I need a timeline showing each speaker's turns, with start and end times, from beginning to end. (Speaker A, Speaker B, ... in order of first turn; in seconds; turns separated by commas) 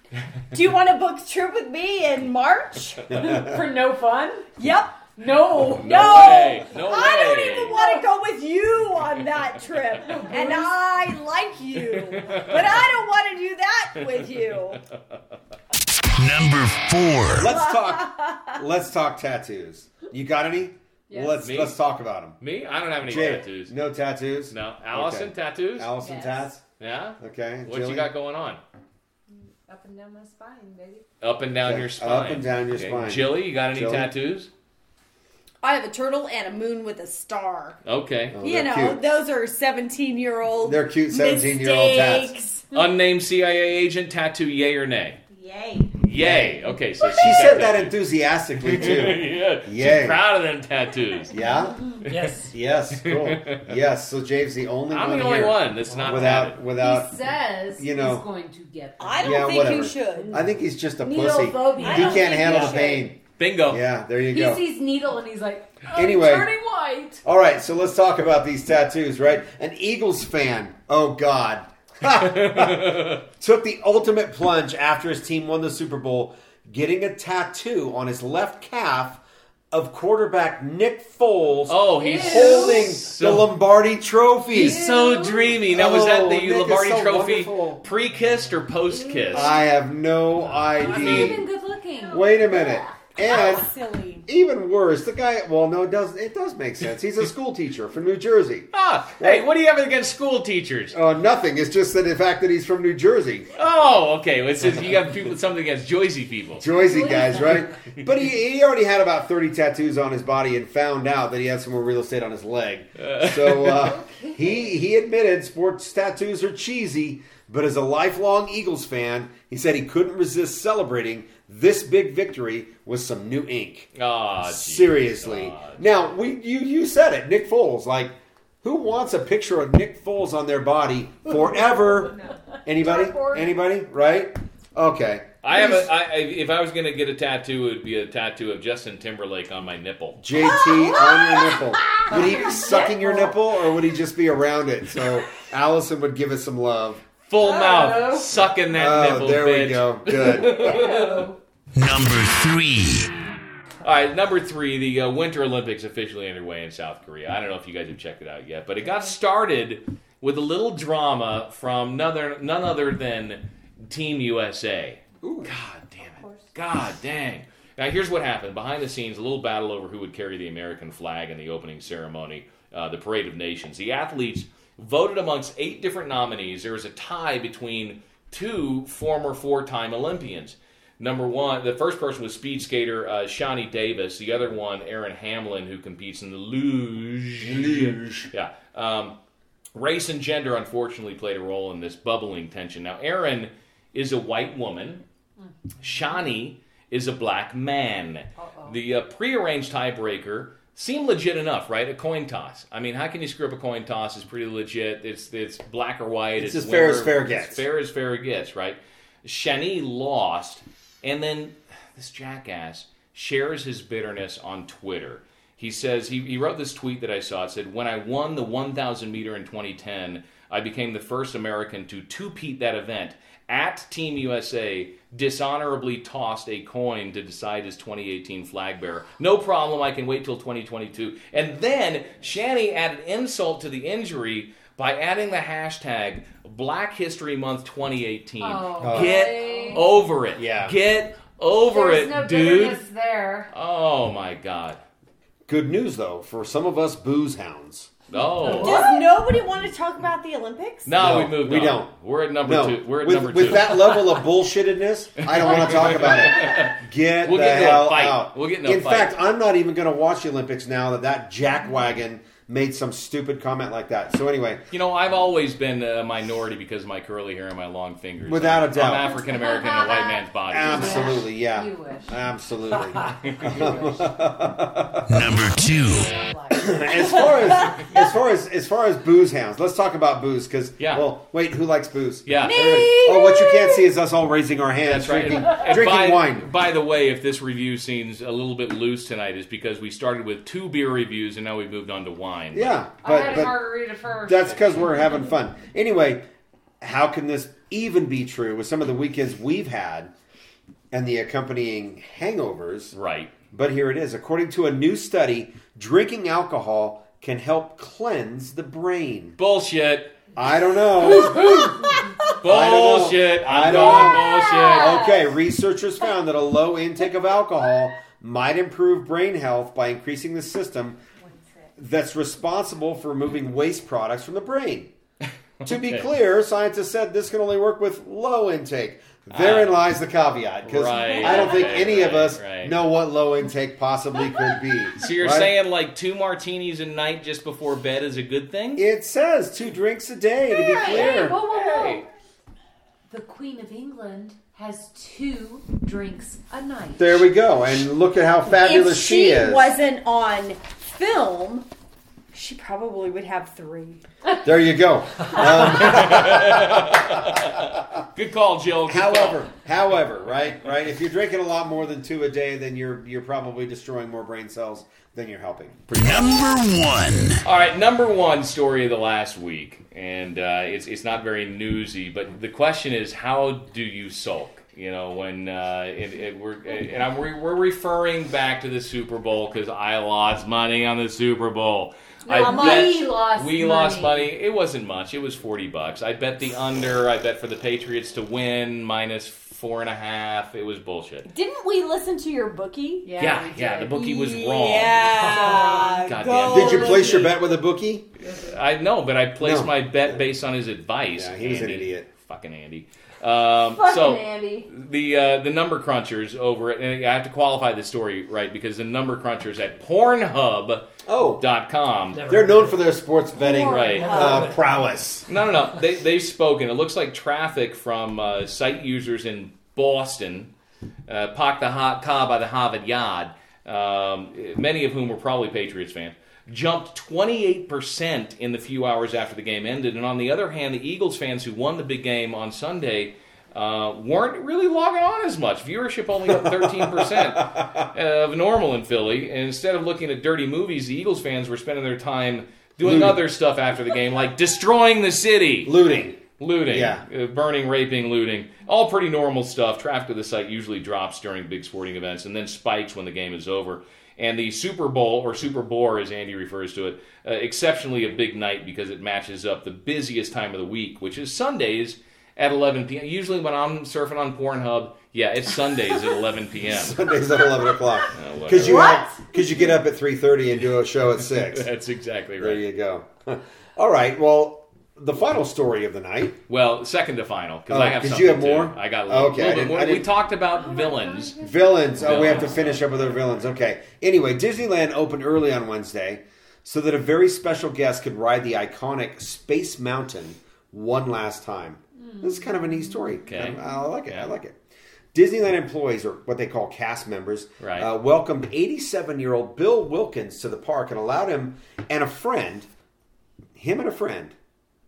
Speaker A: 0.5-3.1, Speaker B: 3.1-3.6, Speaker C: 3.2-4.5, Speaker A: 4.6-14.8, Speaker C: 5.2-6.6, Speaker D: 5.7-7.8, Speaker C: 7.7-8.0, Speaker C: 10.0-10.7, Speaker D: 11.9-12.8, Speaker D: 14.7-15.2, Speaker E: 16.1-17.5, Speaker B: 17.3-22.4, Speaker A: 17.4-18.6, Speaker C: 21.1-21.4, Speaker D: 21.3-21.8, Speaker D: 22.4-23.7, Speaker B: 23.0-26.6, Speaker D: 24.5-25.9, Speaker C: 26.0-26.5, Speaker D: 26.8-28.6, Speaker B: 27.2-28.1, Speaker C: 29.3-31.1, Speaker D: 31.2-34.5, Speaker B: 31.6-34.1, Speaker A: 35.6-37.8, Speaker D: 37.9-38.4, Speaker B: 38.3-39.0, Speaker A: 38.4-42.7, Speaker B: 40.6-42.3, Speaker D: 42.7-45.2, Speaker A: 45.3-45.9, Speaker D: 46.0-48.0, Speaker B: 46.2-50.2, Speaker D: 48.6-51.3, Speaker B: 51.3-51.8, Speaker F: 52.1-52.5, Speaker B: 52.5-57.1, Speaker D: 52.9-53.7, Speaker D: 54.9-56.6, Speaker F: 55.9-56.2, Speaker C: 56.8-60.4, Speaker B: 57.8-58.3, Speaker A: 59.0-60.4, Speaker B: 59.2-63.2, Speaker C: 61.0-62.8, Speaker A: 61.6-63.1, Speaker D: 63.4-63.8, Speaker B: 63.7-64.6, Speaker C: 64.3-67.2, Speaker B: 65.9-66.5, Speaker B: 67.2-79.2, Speaker D: 72.1-73.2, Speaker B: 79.7-84.8, Speaker D: 81.7-83.5, Speaker C: 82.0-83.0, Speaker C: 84.5-85.5, Speaker D: 84.5-89.6, Speaker B: 85.7-87.8, Speaker C: 88.9-89.6, Speaker B: 89.3-91.4, Speaker D: 90.7-91.4, Speaker C: 90.8-92.3, Speaker A: 92.1-94.2, Speaker B: 92.1-93.7, Speaker B: 94.3-99.5, Speaker D: 98.7-101.0, Speaker B: 100.9-103.5, Speaker D: 103.5-106.7, Speaker B: 106.6-123.9, Speaker C: 106.7-107.7, Speaker D: 113.0-113.9, Speaker C: 113.7-114.8, Speaker D: 124.0-125.9, Speaker B: 124.4-135.9, Speaker A: 131.6-132.1, Speaker A: 132.8-133.5, Speaker C: 133.0-133.3, Speaker D: 135.4-140.2, Speaker B: 140.2-147.0, Speaker A: 140.4-143.2, Speaker C: 142.1-143.1, Speaker D: 147.3-151.3, Speaker C: 147.4-148.3, Speaker B: 148.7-150.7, Speaker C: 150.2-151.4, Speaker E: 151.8-153.1, Speaker D: 153.8-189.2, Speaker B: 165.2-165.5, Speaker B: 187.4-188.3, Speaker D: 189.7-195.0, Speaker D: 195.8-242.8, Speaker C: 198.4-198.8, Speaker B: 206.4-207.6, Speaker C: 238.4-239.9, Speaker B: 238.8-239.2, Speaker B: 240.3-240.8, Speaker C: 241.7-243.5, Speaker D: 243.5-244.8, Speaker B: 245.5-247.9, Speaker D: 248.1-248.9, Speaker C: 248.2-249.2, Speaker A: 248.6-250.9, Speaker D: 250.9-254.2, Speaker B: 251.0-251.9, Speaker B: 252.4-264.6, Speaker D: 255.2-259.1, Speaker D: 264.7-271.2, Speaker B: 268.2-269.1, Speaker C: 269.1-274.3, Speaker B: 270.5-275.3, Speaker D: 273.1-273.6, Speaker E: 275.1-276.2, Speaker C: 275.6-277.3, Speaker B: 276.5-286.5, Speaker D: 280.8-281.1, Speaker D: 282.3-282.8, Speaker A: 282.4-283.9, Speaker D: 284.8-292.7, Speaker B: 292.5-293.6, Speaker C: 293.0-295.0, Speaker B: 294.2-296.2, Speaker B: 296.8-300.1, Speaker B: 300.9-302.9, Speaker D: 302.9-303.3, Speaker B: 303.5-309.4, Speaker D: 309.4-310.2, Speaker B: 310.4-311.6, Speaker D: 311.0-315.0, Speaker C: 311.3-311.9, Speaker B: 312.4-321.0, Speaker A: 313.8-315.3, Speaker B: 321.8-324.9, Speaker D: 325.6-326.1, Speaker B: 325.6-335.5, Speaker D: 329.3-329.8, Speaker D: 330.6-332.8, Speaker D: 335.0-338.9, Speaker B: 338.8-341.4, Speaker C: 340.6-342.1, Speaker D: 340.8-342.1, Speaker C: 343.1-347.3, Speaker B: 347.0-349.7, Speaker A: 348.5-351.7, Speaker A: 352.3-354.0, Speaker B: 354.4-357.8, Speaker D: 355.4-359.5, Speaker B: 358.9-366.4, Speaker E: 366.0-367.4, Speaker D: 367.4-391.3, Speaker C: 382.3-384.3, Speaker A: 382.3-383.1, Speaker A: 391.2-397.3, Speaker C: 393.1-393.7, Speaker D: 393.2-397.4, Speaker C: 395.2-396.0, Speaker F: 395.2-396.0, Speaker B: 396.5-398.1, Speaker C: 398.2-398.5, Speaker D: 398.3-412.3, Speaker B: 399.4-400.2, Speaker B: 401.1-402.1, Speaker A: 403.7-404.7, Speaker B: 411.1-411.4, Speaker F: 412.1-412.9, Speaker B: 412.3-415.3, Speaker A: 413.4-414.6, Speaker D: 413.6-414.2, Speaker F: 413.7-414.7, Speaker D: 415.3-420.5, Speaker D: 421.1-445.9, Speaker B: 436.2-437.9, Speaker B: 442.8-443.2, Speaker B: 445.6-447.0, Speaker D: 446.4-467.0, Speaker B: 466.6-471.7, Speaker D: 468.1-468.9, Speaker A: 468.6-469.3, Speaker D: 471.2-472.6, Speaker B: 472.4-476.4, Speaker D: 476.5-481.4, Speaker B: 477.7-480.1, Speaker C: 480.5-482.4, Speaker B: 481.4-494.6, Speaker D: 482.0-483.1, Speaker C: 492.1-492.8, Speaker D: 493.3-494.3, Speaker B: 495.1-502.7, Speaker D: 497.6-497.9, Speaker B: 503.6-504.4